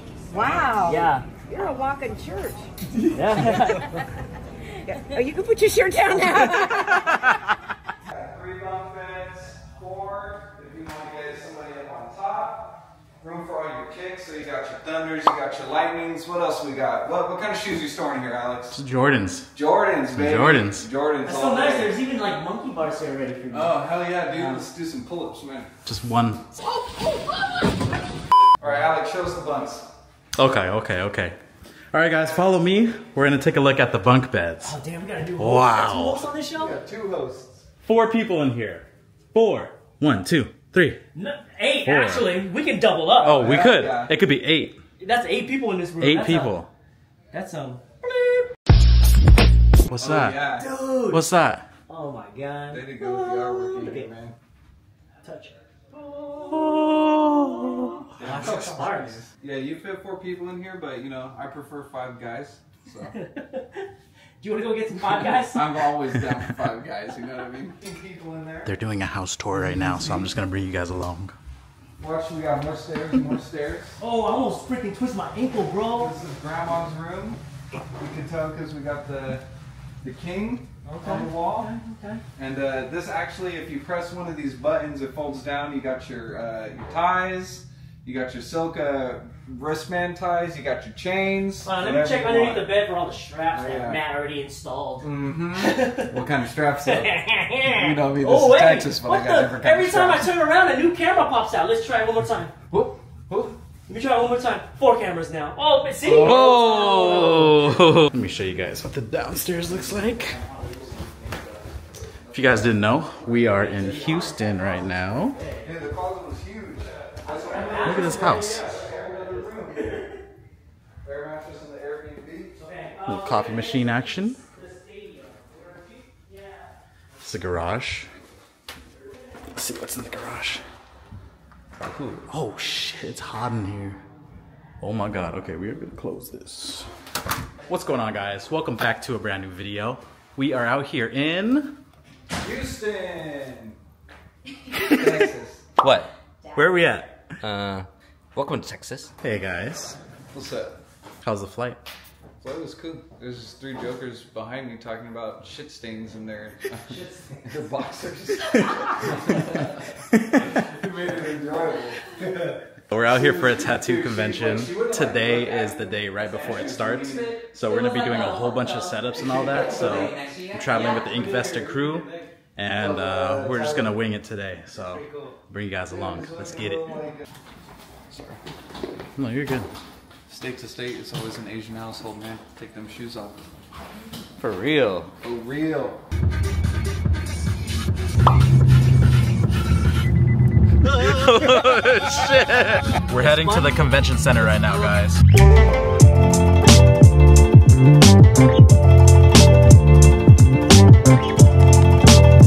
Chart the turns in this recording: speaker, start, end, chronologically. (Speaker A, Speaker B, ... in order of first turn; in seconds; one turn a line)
Speaker A: 0.3-2.7
Speaker B: 0.8-1.3
Speaker B: 3.1-3.9
Speaker A: 4.8-7.1
Speaker C: 8.1-18.8
Speaker D: 18.7-19.5
Speaker C: 19.5-21.9
Speaker D: 20.1-20.9
Speaker B: 21.2-24.6
Speaker C: 23.5-25.7
Speaker D: 25.9-26.5
Speaker C: 28.6-29.9
Speaker D: 30.4-31.4
Speaker D: 31.9-34.7
Speaker B: 34.6-36.8
Speaker D: 35.4-36.3
Speaker C: 36.5-37.6
Speaker D: 37.8-41.0
Speaker B: 41.1-43.5
Speaker D: 41.9-42.4
Speaker D: 43.2-44.8
Speaker C: 43.2-44.1
Speaker B: 45.0-46.5
Speaker D: 46.0-46.7
Speaker B: 47.3-48.3
Speaker D: 49.9-50.4
Speaker C: 50.0-50.7
Speaker B: 50.6-51.2
Speaker D: 51.1-51.6
Speaker B: 51.9-54.1
Speaker C: 52.7-54.4
Speaker B: 55.2-55.5
Speaker D: 56.3-58.1
Speaker C: 58.2-63.2
Speaker B: 58.2-59.2
Speaker B: 63.1-63.9
Speaker B: 64.4-65.8
Speaker C: 65.2-68.7
Speaker D: 68.7-71.3
Speaker C: 69.5-70.3
Speaker C: 72.0-74.0
Speaker B: 74.0-76.1
Speaker C: 76.0-77.4
Speaker C: 78.0-79.4
Speaker C: 80.0-81.7
Speaker B: 80.8-82.2
Speaker C: 82.4-92.7
Speaker B: 91.7-96.1
Speaker C: 93.5-94.0
Speaker C: 95.0-100.3
Speaker B: 96.9-102.5
Speaker C: 102.7-103.5
Speaker B: 103.9-107.2
Speaker D: 106.1-110.4
Speaker C: 106.1-106.5
Speaker D: 112.3-115.4
Speaker B: 113.7-114.7
Speaker B: 115.4-115.7
Speaker C: 115.6-120.0
Speaker B: 117.2-119.0
Speaker D: 117.8-118.6
Speaker C: 121.0-122.6
Speaker B: 122.6-126.7
Speaker D: 123.0-124.4
Speaker D: 127.2-128.1
Speaker D: 129.6-130.6
Speaker D: 132.3-134.0
Speaker D: 134.8-136.9
Speaker D: 137.7-141.8
Speaker C: 142.4-143.8
Speaker C: 144.8-145.7
Speaker E: 145.8-146.1
Speaker D: 146.5-147.1
Speaker E: 147.4-149.1
Speaker D: 149.2-150.0
Speaker C: 150.3-150.8
Speaker D: 151.2-151.8
Speaker C: 152.4-159.7
Speaker D: 160.1-160.6
Speaker C: 160.5-167.5
Speaker D: 162.9-176.9
Speaker E: 167.6-171.0
Speaker C: 172.7-174.0
Speaker C: 175.9-177.2
Speaker C: 178.1-178.4
Speaker D: 179.2-179.7
Speaker C: 180.3-183.4
Speaker D: 184.4-185.1
Speaker C: 185.2-186.0
Speaker D: 190.8-195.2
Speaker B: 193.2-193.9
Speaker B: 194.4-194.9